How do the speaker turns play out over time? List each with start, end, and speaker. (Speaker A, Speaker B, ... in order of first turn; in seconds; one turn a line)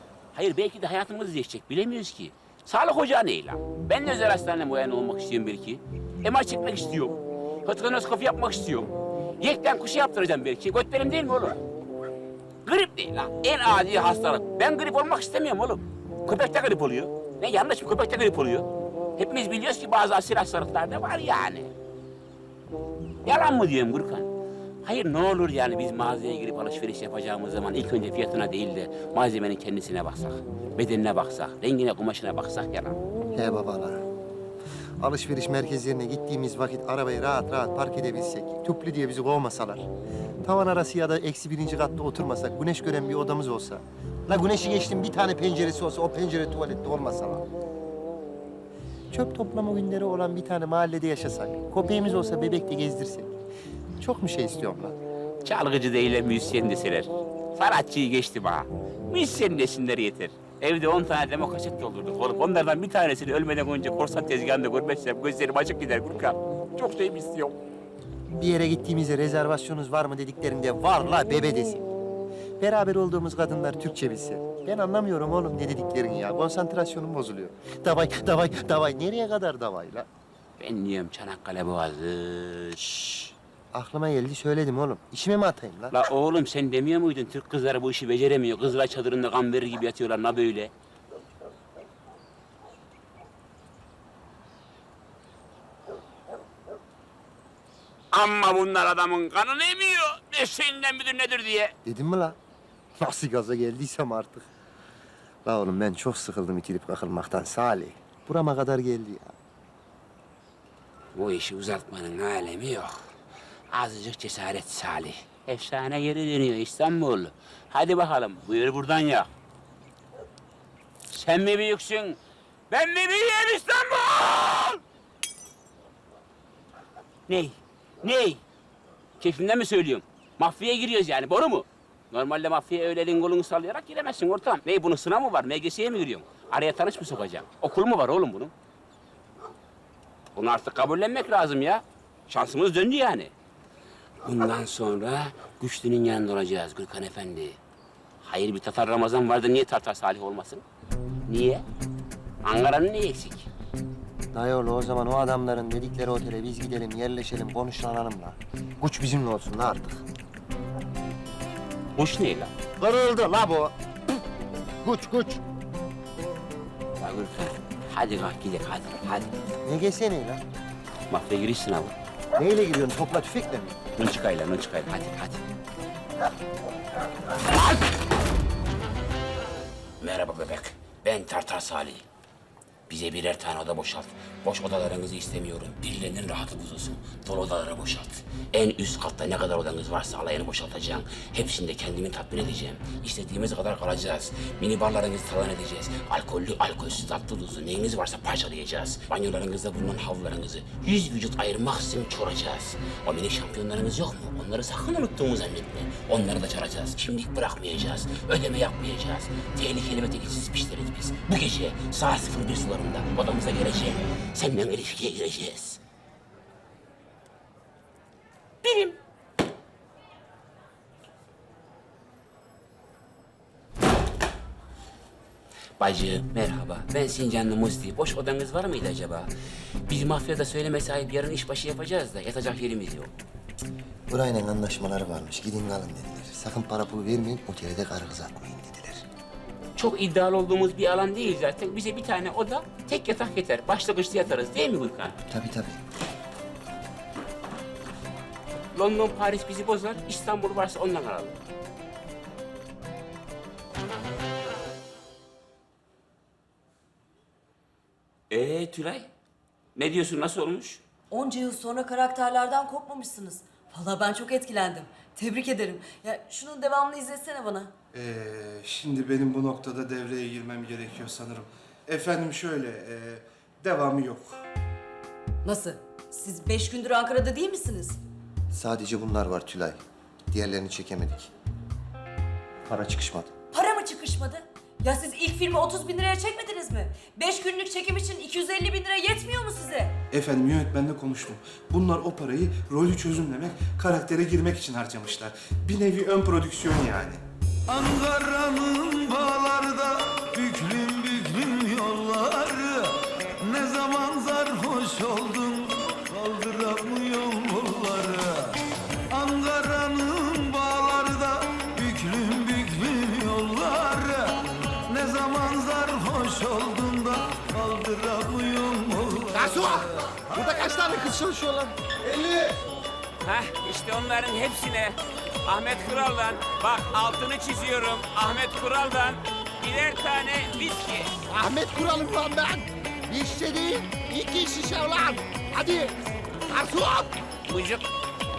Speaker A: 0.3-11.6
Speaker A: 12.6-21.7
Speaker A: 23.2-24.3
Speaker A: 24.8-33.0
Speaker B: 33.3-34.0
Speaker B: 35.0-39.9
Speaker B: 40.4-47.5
Speaker B: 49.1-53.3
Speaker B: 54.0-55.0
Speaker A: 55.4-67.6
Speaker B: 68.3-71.9
Speaker B: 72.6-80.1
Speaker A: 80.6-82.8
Speaker B: 82.8-85.9
Speaker A: 85.9-90.7
Speaker A: 98.1-101.7
Speaker B: 101.8-102.4
Speaker B: 103.0-104.5
Speaker B: 105.4-109.3
Speaker A: 111.1-113.0
Speaker A: 113.7-119.3
Speaker A: 121.1-122.2
Speaker A: 122.7-124.8
Speaker A: 127.3-128.4
Speaker A: 129.2-138.5
Speaker A: 140.3-143.3
Speaker A: 144.2-147.6
Speaker A: 148.2-150.6
Speaker A: 151.3-151.6
Speaker A: 152.4-153.5
Speaker B: 154.3-160.0
Speaker A: 162.0-162.5
Speaker B: 162.8-163.7
Speaker B: 164.8-165.4
Speaker A: 167.0-169.3
Speaker B: 169.6-170.4
Speaker A: 171.1-171.9
Speaker B: 172.3-173.8
Speaker A: 174.0-175.4
Speaker A: 177.4-177.9
Speaker A: 180.0-182.1
Speaker A: 182.9-215.8
Speaker A: 218.6-218.9
Speaker A: 225.8-229.3
Speaker A: 229.9-233.1
Speaker B: 234.1-239.0
Speaker A: 239.8-245.1
Speaker B: 245.3-245.8
Speaker A: 248.7-251.4
Speaker A: 258.3-259.1
Speaker A: 259.8-260.8
Speaker C: 261.1-267.7
Speaker D: 267.9-274.4
Speaker C: 275.4-278.0
Speaker B: 278.5-279.8
Speaker B: 280.3-281.3
Speaker B: 282.7-283.3
Speaker C: 283.5-289.9
Speaker D: 290.1-297.2
Speaker E: 297.7-308.5
Speaker E: 309.1-314.4
Speaker E: 314.9-319.5
Speaker A: 319.3-321.2
Speaker B: 320.5-321.7
Speaker D: 322.0-322.5
Speaker A: 323.2-331.1
Speaker B: 331.3-332.3
Speaker B: 333.8-334.8
Speaker A: 337.5-337.9